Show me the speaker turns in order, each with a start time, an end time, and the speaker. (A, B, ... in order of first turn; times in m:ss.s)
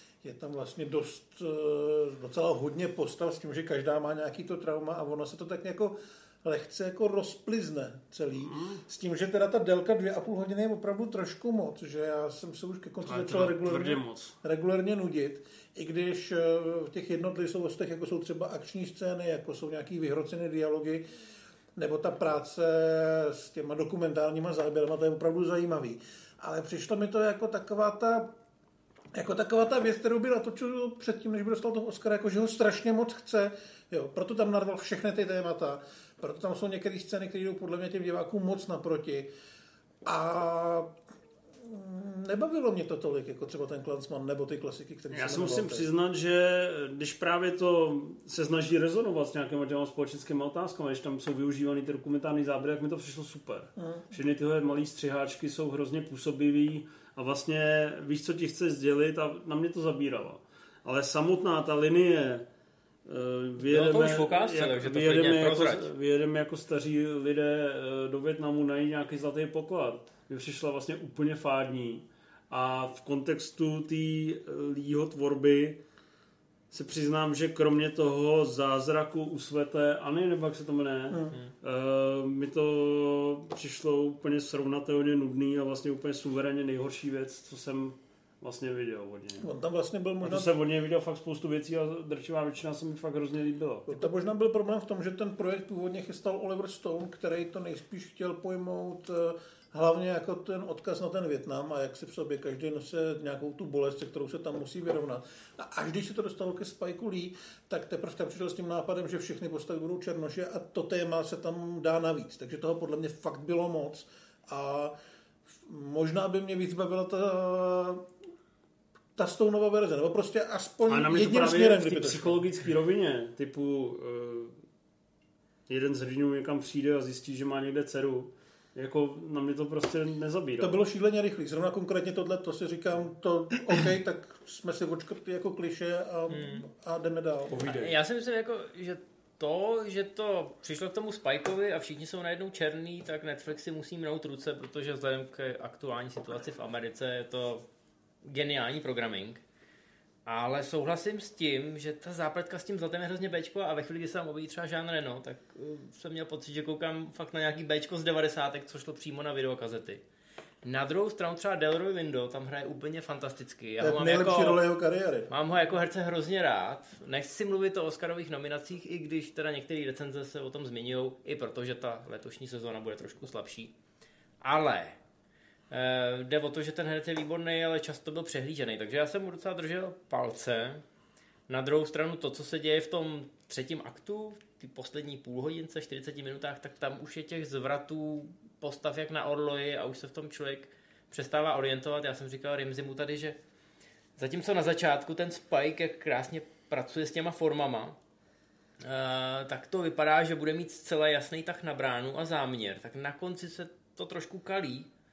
0:00.2-0:21.0 A
0:08.4-0:08.8 B
0:13.0-0:14.3 B
0:21.8-0:28.3 A
0:29.1-0:39.3 A
0:40.0-0:41.0 A
0:41.6-0:45.9 A
0:45.1-1:02.4 B
0:53.8-0:54.0 A
1:03.0-1:15.8 B
1:03.7-1:05.9 C
1:16.7-1:29.5 B
1:21.1-1:21.4 A
1:29.4-1:30.5 A
1:30.2-1:34.0 B
1:33.9-1:54.9 A
1:55.6-1:58.0 A
1:59.2-2:02.4 A
2:00.9-2:04.6 B
2:05.7-2:10.8 B
2:10.6-2:17.6 A
2:16.3-2:16.6 C
2:17.5-2:17.9 B
2:17.6-2:27.6 C
2:28.2-2:29.4 C
2:30.2-2:40.0 C
2:40.6-2:44.6 C
2:43.8-2:45.3 A
2:45.3-2:53.7 C
2:54.4-2:55.0 C
2:55.7-3:00.8 C
3:01.5-3:13.4 C
3:14.2-3:18.0 C
3:18.8-3:24.9 C